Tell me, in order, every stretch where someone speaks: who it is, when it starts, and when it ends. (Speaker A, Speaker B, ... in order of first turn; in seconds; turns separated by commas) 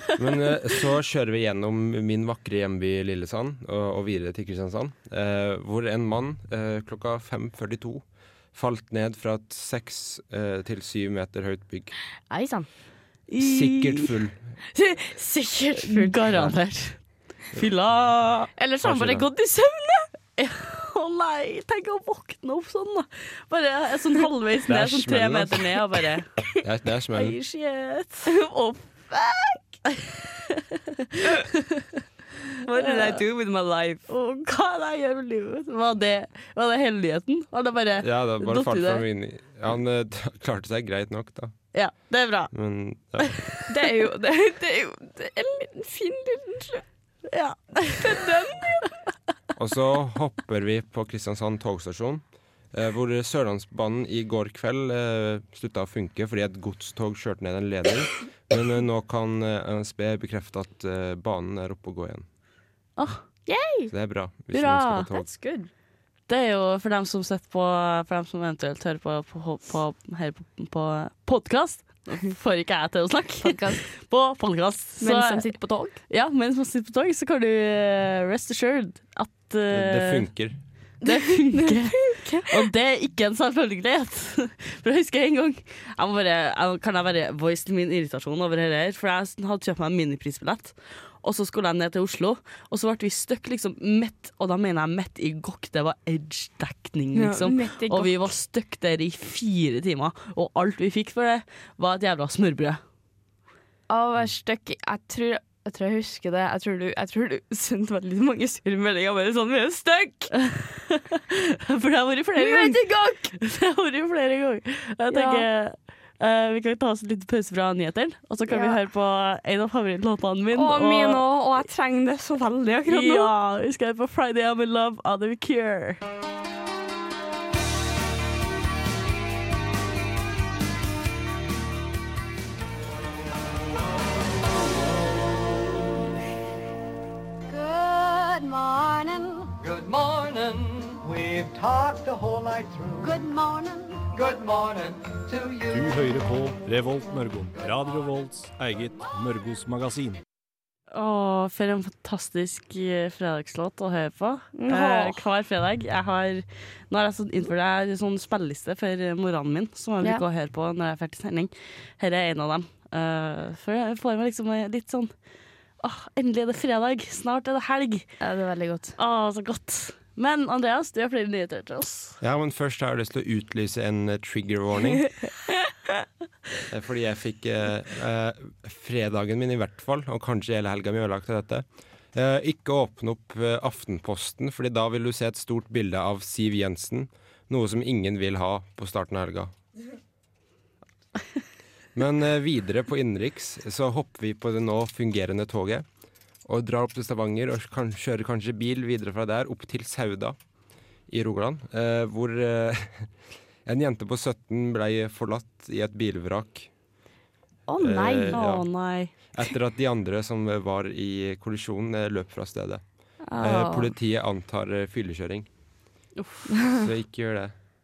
Speaker A: 0.2-8.0, Speaker A: 8.5-11.9, Speaker B: 12.3-12.7, Speaker C: 13.3-14.1, Speaker A: 13.4-14.4, Speaker B: 14.7-16.2, Speaker C: 15.8-17.0, Speaker C: 17.5-18.5, Speaker B: 18.6-20.1, Speaker A: 18.8-19.3, Speaker C: 20.4-26.3, Speaker A: 24.7-25.7, Speaker A: 26.6-27.4, Speaker C: 27.1-28.3, Speaker B: 28.3-29.6, Speaker C: 31.2-31.8, Speaker B: 32.6-34.0, Speaker C: 32.7-33.2, Speaker C: 34.1-39.0, Speaker A: 38.0-41.5, Speaker C: 41.7-42.5, Speaker A: 42.5-43.4, Speaker C: 43.2-43.7, Speaker B: 43.7-46.8, Speaker C: 47.3-48.2, Speaker B: 48.0-48.8, Speaker A: 49.5-62.2, Speaker C: 63.0-63.2, Speaker B: 63.5-63.9, Speaker A: 63.9-65.3, Speaker C: 64.5-65.1, Speaker B: 65.1-65.7, Speaker C: 66.3-75.5, Speaker B: 73.4-73.8, Speaker B: 75.0-76.0, Speaker C: 76.1-80.3, Speaker A: 79.7-80.6, Speaker B: 81.0-82.6, Speaker C: 81.0-102.8, Speaker B: 97.1-98.3, Speaker B: 103.9-110.3, Speaker C: 110.3-112.8, Speaker B: 112.4-113.3, Speaker C: 113.4-121.2, Speaker B: 115.1-115.5, Speaker B: 118.5-118.8, Speaker B: 120.5-123.3, Speaker C: 122.9-126.0, Speaker D: 137.5-139.5, Speaker E: 139.6-143.1, Speaker D: 143.0-144.1, Speaker E: 144.1-145.9, Speaker F: 145.7-150.2, Speaker C: 150.9-165.1, Speaker B: 154.5-155.2, Speaker C: 165.8-168.1, Speaker B: 168.2-168.9, Speaker C: 169.0-172.2, Speaker A: 172.2-175.1, Speaker A: 176.7-189.5, Speaker A: 191.9-195.8, Speaker A: 196.4-200.3, Speaker A: 201.1-203.1, Speaker A: 203.6-206.7, Speaker B: 207.7-208.4, Speaker A: 207.8-212.8, Speaker C: 208.3-209.1, Speaker B: 213.3-213.9, Speaker A: 213.4-215.5, Speaker C: 216.2-216.5, Speaker A: 216.8-217.5